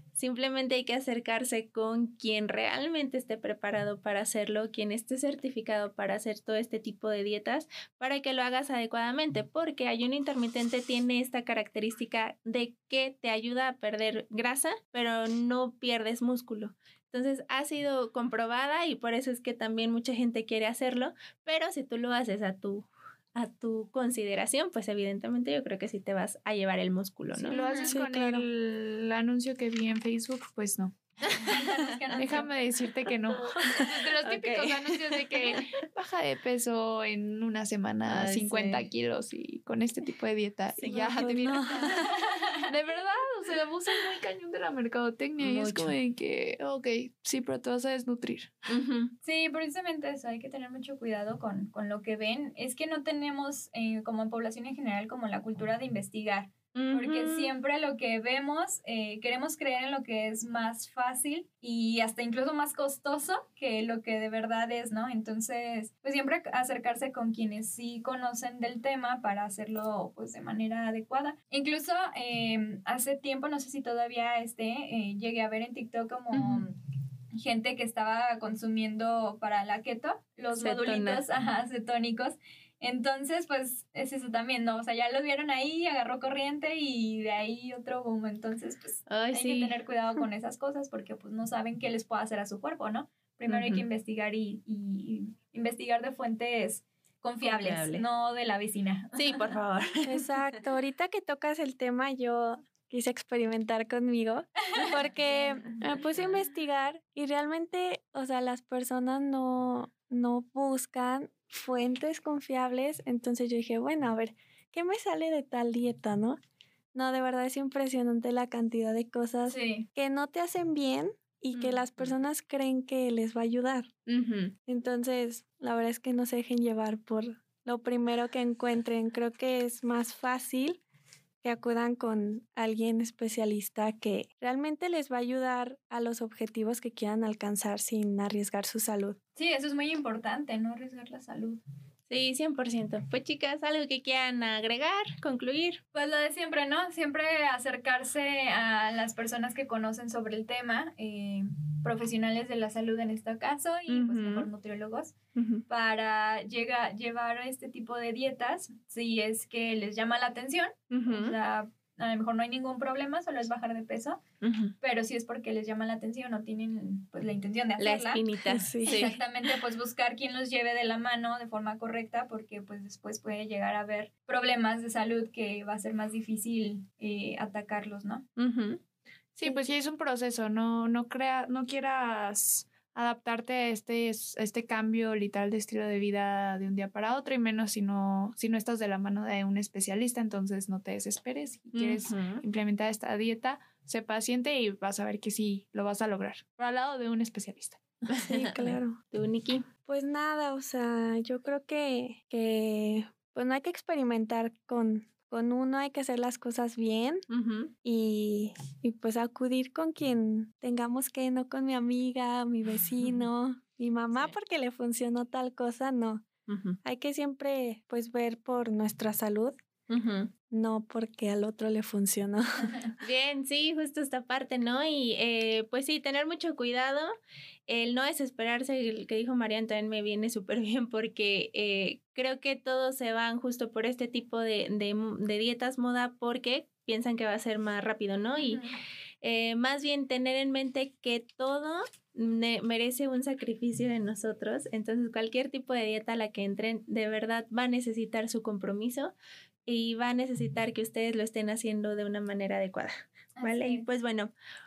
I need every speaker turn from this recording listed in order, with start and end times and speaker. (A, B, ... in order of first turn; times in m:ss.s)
0:00.1-0:27.6 A
0:27.4-0:31.0 B
0:27.5-0:28.0 C
0:27.9-0:28.4 D
0:31.2-0:31.8 A
0:31.3-0:32.5 C
0:32.2-0:42.1 B
0:33.7-0:35.7 A
0:38.1-0:38.9 A
0:40.7-0:41.3 A
0:40.8-0:42.1 D
0:41.7-0:42.7 C
0:42.6-0:48.5 B
0:45.4-0:45.9 A
0:48.7-0:49.1 A
0:49.2-1:16.8 C
0:56.7-0:57.5 A
1:16.3-1:16.6 A
1:17.3-1:39.5 C
1:20.5-1:21.2 A
1:29.1-1:29.8 A
1:33.5-1:33.8 A
1:37.4-1:38.0 A
1:39.2-1:40.3 A
1:40.0-1:56.4 D
1:44.7-1:45.8 C
1:56.9-2:03.9 D
1:59.5-1:59.9 C
2:01.5-2:02.1 A
2:04.1-2:04.5 A
2:04.7-2:10.8 D
2:11.4-2:19.2 D
2:19.4-2:21.6 C
2:22.1-2:25.8 A
2:25.9-2:35.1 C
2:33.9-2:34.5 A
2:35.4-2:35.6 A
2:35.7-2:44.2 C
2:40.9-2:41.4 A
2:44.4-2:44.7 A
2:44.8-2:48.2 C
2:47.8-2:49.5 A
2:48.5-2:49.0 D
2:48.8-2:58.2 C
2:58.4-2:58.8 A
2:59.3-3:18.1 B
3:11.7-3:12.4 A
3:18.1-3:19.7 A
3:18.3-3:19.0 D
3:19.8-3:27.2 D
3:27.3-3:27.7 A
3:27.8-3:36.2 D
3:33.0-3:33.3 A
3:36.5-3:36.8 A
3:36.8-3:39.5 D
3:39.9-3:40.3 A
3:40.5-3:42.8 D
3:43.0-3:47.1 A
3:47.7-3:58.6 A
3:58.4-3:58.8 C
3:59.2-4:09.1 A
4:09.6-4:14.3 A
4:13.4-4:13.8 C